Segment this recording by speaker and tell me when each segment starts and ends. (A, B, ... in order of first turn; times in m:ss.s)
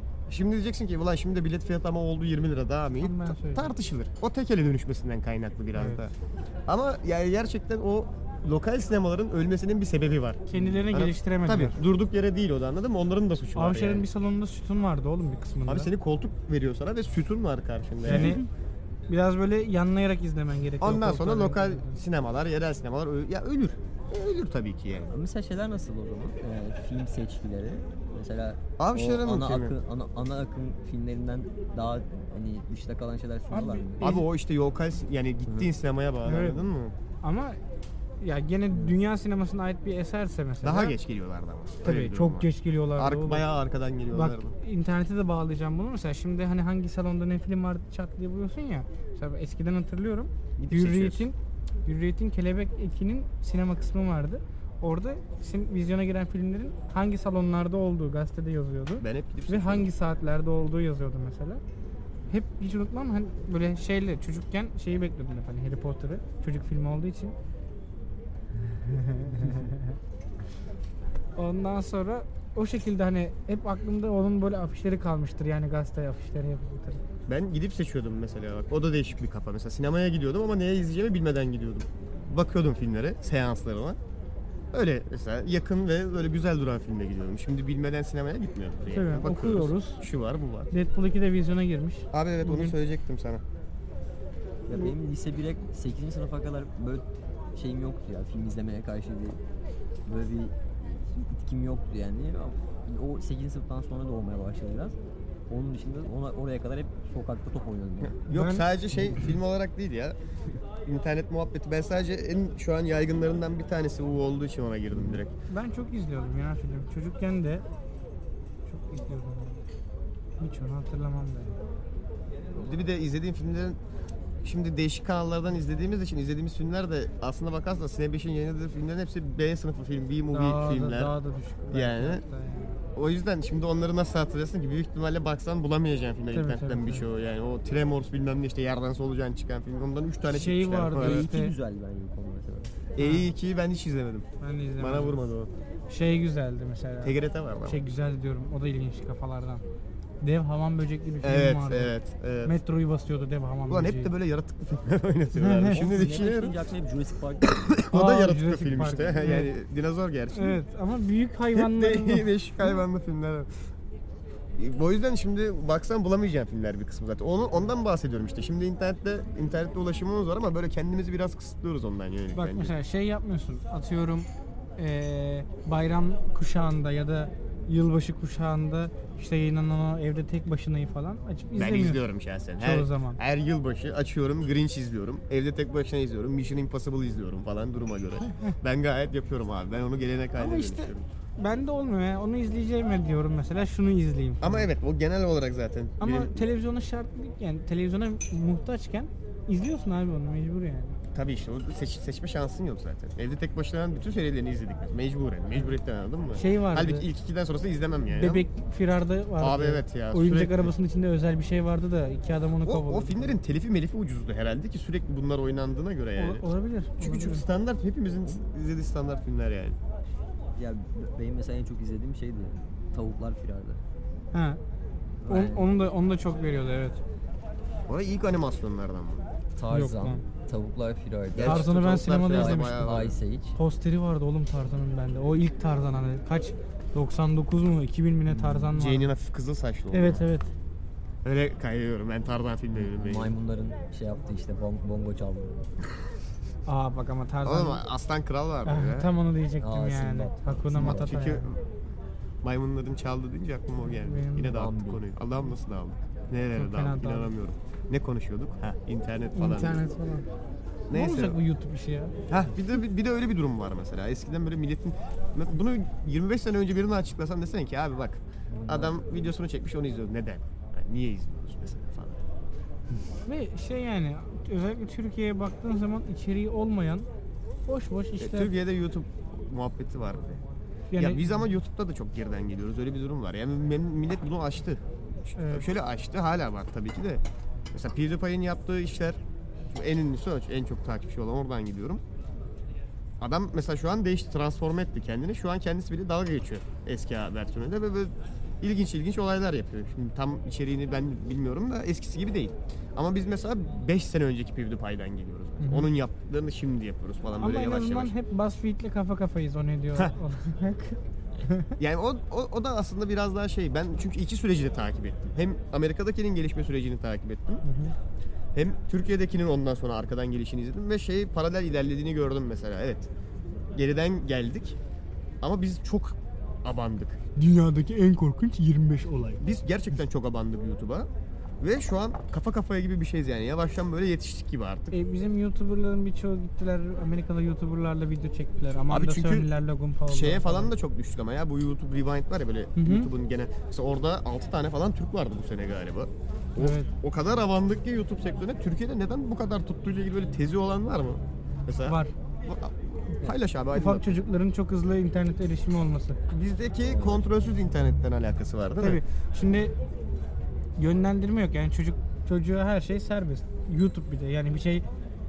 0:00.3-0:06.1 A
0:03.0-0:03.7 B
0:05.7-0:06.0 B
0:06.7-0:14.0 A
0:10.5-0:11.8 B
0:13.5-0:15.9 B
0:15.6-0:18.4 A
0:18.0-0:18.4 B
0:19.1-0:22.0 B
0:20.8-0:25.1 A
0:25.1-0:34.1 C
0:28.8-0:29.7 A
0:33.5-0:34.3 B
0:34.0-0:36.9 A
0:36.2-0:36.6 B
0:37.2-0:37.6 B
0:38.2-0:41.0 B
0:40.6-0:44.5 A
0:41.8-0:43.4 B
0:44.1-1:01.6 B
0:50.6-0:51.2 A
0:59.0-0:59.9 A
1:02.3-1:07.3 B
1:08.6-1:10.0 B
1:11.4-1:17.0 B
1:17.3-1:24.0 A
1:24.7-1:30.7 A
1:28.9-1:30.0 B
1:30.7-1:32.7 B
1:32.1-1:33.4 A
1:34.7-1:39.4 C
1:40.0-1:45.0 C
1:45.5-1:48.2 C
1:48.0-1:50.1 A
1:48.3-1:48.7 B
1:50.8-1:55.3 A
1:54.9-1:55.2 C
1:55.5-1:57.6 B
1:58.6-1:59.6 B
2:00.4-2:01.6 B
2:02.5-2:03.8 A
2:04.4-2:11.2 A
2:10.3-2:12.8 B
2:11.7-2:12.2 A
2:12.9-2:21.3 A
2:16.3-2:17.0 B
2:20.2-2:21.5 B
2:20.9-2:22.7 C
2:23.0-2:24.3 A
2:23.0-2:23.3 B
2:24.4-2:25.1 B
2:24.8-2:25.5 A
2:25.9-2:29.6 B
2:27.0-2:27.8 A
2:30.2-2:31.9 B
2:31.2-2:32.6 A
2:32.4-2:34.1 B
2:33.7-2:36.6 A
2:35.4-2:35.8 B
2:35.7-2:37.8 C
2:37.6-2:40.6 A
2:37.9-2:39.5 B
2:40.3-2:42.8 B
2:41.5-2:43.5 A
2:44.6-2:52.7 A
2:52.3-3:02.0 B
3:01.5-3:11.1 A
3:02.6-3:03.2 B
3:10.4-3:14.7 B
3:14.4-3:16.4 A
3:16.0-3:21.0 B
3:21.1-3:28.5 A
3:26.4-3:27.1 B
3:28.1-3:33.4 B
3:29.4-3:30.7 A
3:32.6-3:36.5 A
3:36.2-3:37.4 B
3:37.0-3:39.8 A
3:40.6-3:43.8 C
3:44.3-3:44.6 B
3:45.2-3:45.7 C
3:45.3-3:47.0 B
3:47.9-3:49.3 A
3:49.6-3:51.7 C
3:49.7-3:50.2 B
3:51.3-3:53.2 A
3:51.4-3:52.9 B
3:52.3-3:53.5 C
3:53.6-3:59.1 B
3:58.3-3:58.7 C
3:58.7-4:00.3 A
3:59.9-4:00.5 B
4:01.2-4:03.4 A
4:02.7-4:05.7 C
4:06.6-4:07.8 B
4:07.4-4:09.1 A
4:08.6-4:11.5 B
4:09.6-4:11.3 C
4:10.7-4:11.6 A
4:12.4-4:19.9 A
4:13.9-4:14.6 B
4:14.4-4:15.0 C
4:16.6-4:17.3 B
4:19.3-4:20.3 B
4:20.9-4:22.1 B
4:20.9-4:21.4 A
4:22.3-4:32.2 A
4:28.5-4:29.0 C
4:33.2-4:37.0 B
4:37.7-4:38.5 B
4:38.2-4:40.4 A
4:40.9-4:41.4 B
4:41.0-4:49.2 A
4:45.4-4:45.6 B
4:49.7-4:52.0 A
4:53.2-5:08.1 A
5:05.6-5:05.9 B
5:07.4-5:11.7 B
5:11.8-5:17.6 A
5:17.6-5:17.9 B
5:18.5-5:23.1 A
5:23.7-5:24.8 A
5:25.4-5:27.2 A
5:27.4-5:29.4 B
5:29.4-5:31.1 A
5:31.6-5:35.0 A
5:34.9-5:40.7 B
5:38.9-5:39.5 A
5:40.1-5:54.2 A
5:42.8-5:43.1 B
5:46.6-5:46.9 B
5:51.8-5:52.1 B
5:53.7-5:56.2 B
5:56.3-5:59.0 A
5:56.9-5:57.2 C
5:58.8-5:59.7 B
6:00.8-6:04.8 B